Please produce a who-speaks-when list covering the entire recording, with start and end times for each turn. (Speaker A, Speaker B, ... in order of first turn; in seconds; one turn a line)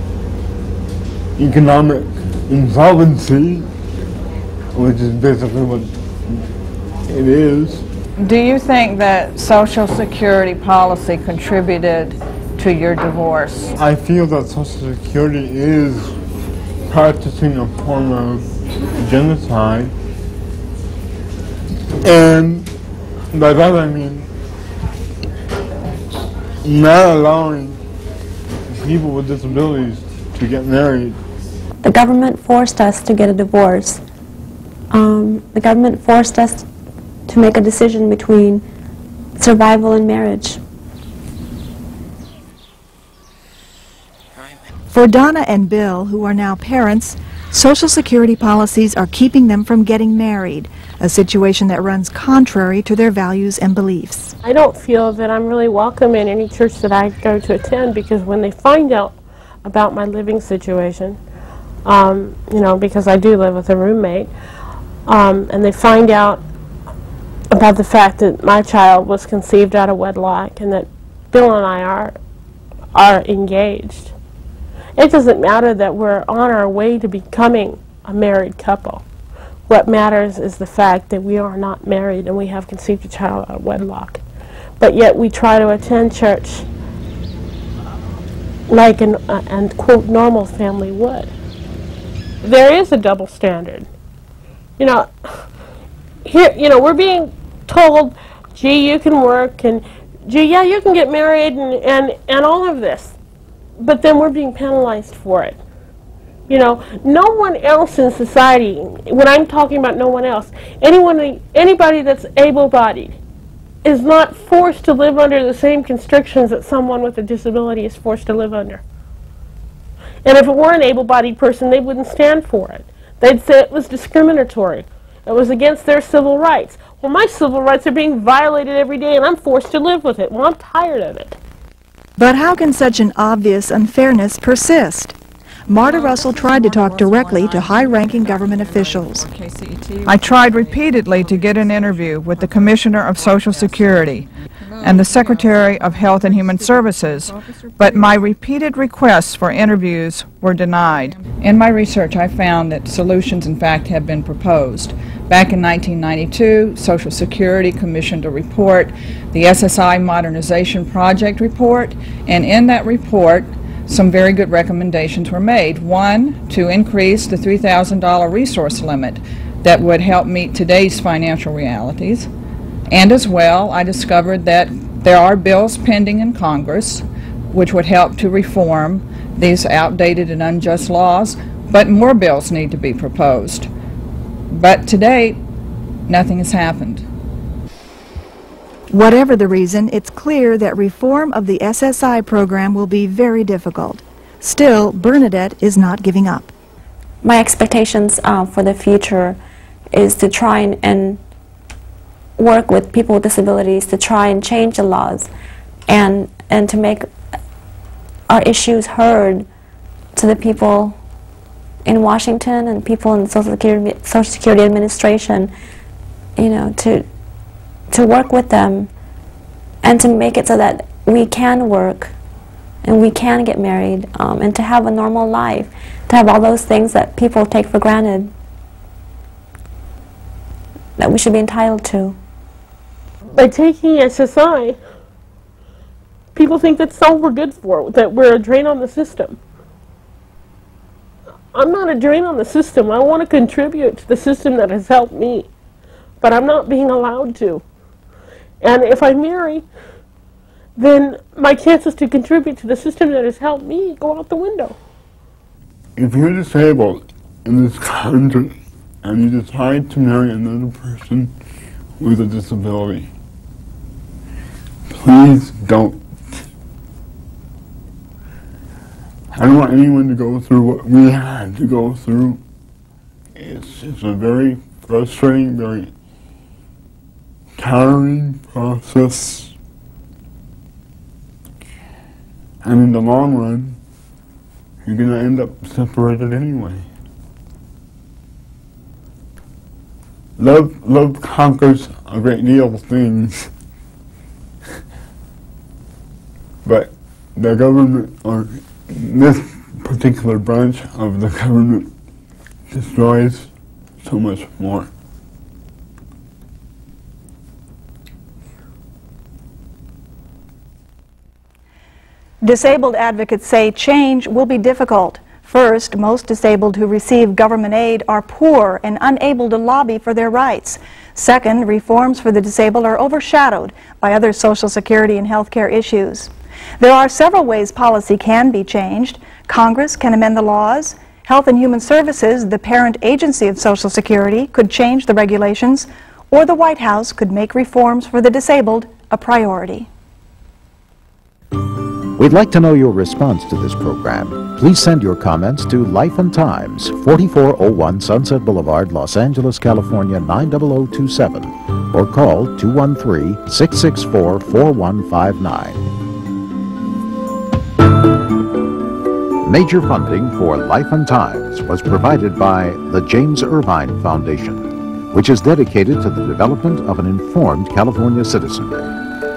Speaker A: 1.4-3.7
Speaker A: 4.7-6.4
Speaker A: 7.0-7.9
Speaker B: 8.2-13.7
Speaker A: 13.8-16.2
Speaker A: 16.9-19.9
Speaker A: 22.0-22.7
Speaker A: 23.3-24.3
Speaker A: 26.6-27.8
Speaker A: 28.7-31.2
Speaker C: 31.8-34.0
Speaker C: 34.9-36.7
Speaker C: 37.3-38.6
Speaker C: 39.4-40.6
Speaker D: 44.9-54.3
Speaker E: 54.4-61.2
Speaker E: 61.8-64.3
Speaker E: 65.0-66.4
Speaker E: 67.5-72.2
Speaker E: 72.9-74.1
Speaker E: 75.0-79.0
Speaker E: 79.7-84.2
Speaker E: 84.8-86.7
Speaker E: 88.7-91.3
Speaker E: 92.4-93.9
Speaker E: 94.8-95.4
Speaker E: 96.2-103.1
Speaker E: 103.8-105.6
Speaker E: 106.5-113.2
Speaker E: 113.8-118.8
Speaker E: 120.2-131.4
Speaker D: 132.2-135.1
Speaker D: 135.7-139.3
Speaker B: 139.5-172.3
Speaker B: 172.9-183.7
Speaker B: 184.5-185.4
Speaker B: 186.1-187.0
Speaker D: 188.9-196.5
Speaker C: 197.2-199.4
Speaker C: 199.9-201.2
Speaker C: 202.4-205.3
Speaker C: 205.9-207.1
Speaker C: 208.3-209.5
Speaker C: 210.2-211.0
Speaker C: 211.8-215.5
Speaker C: 216.4-217.1
Speaker C: 217.9-218.9
Speaker C: 219.8-222.1
Speaker C: 222.8-228.3
Speaker C: 231.0-232.2
Speaker E: 233.3-234.8
Speaker E: 236.3-239.4
Speaker E: 241.5-245.5
Speaker E: 246.2-247.6
Speaker E: 248.6-249.7
Speaker E: 250.8-254.8
Speaker A: 255.9-261.3
Speaker A: 262.0-263.1
Speaker A: 264.9-266.4
Speaker A: 269.3-272.4
Speaker A: 273.3-275.9
Speaker A: 277.6-279.5
Speaker A: 282.6-283.8
Speaker A: 284.8-286.9
Speaker A: 290.4-293.5
Speaker A: 296.6-301.9
Speaker A: 302.7-303.5
Speaker A: 304.0-304.9
Speaker D: 312.4-339.9
Speaker F: 342.1-355.9
Speaker F: 359.4-368.9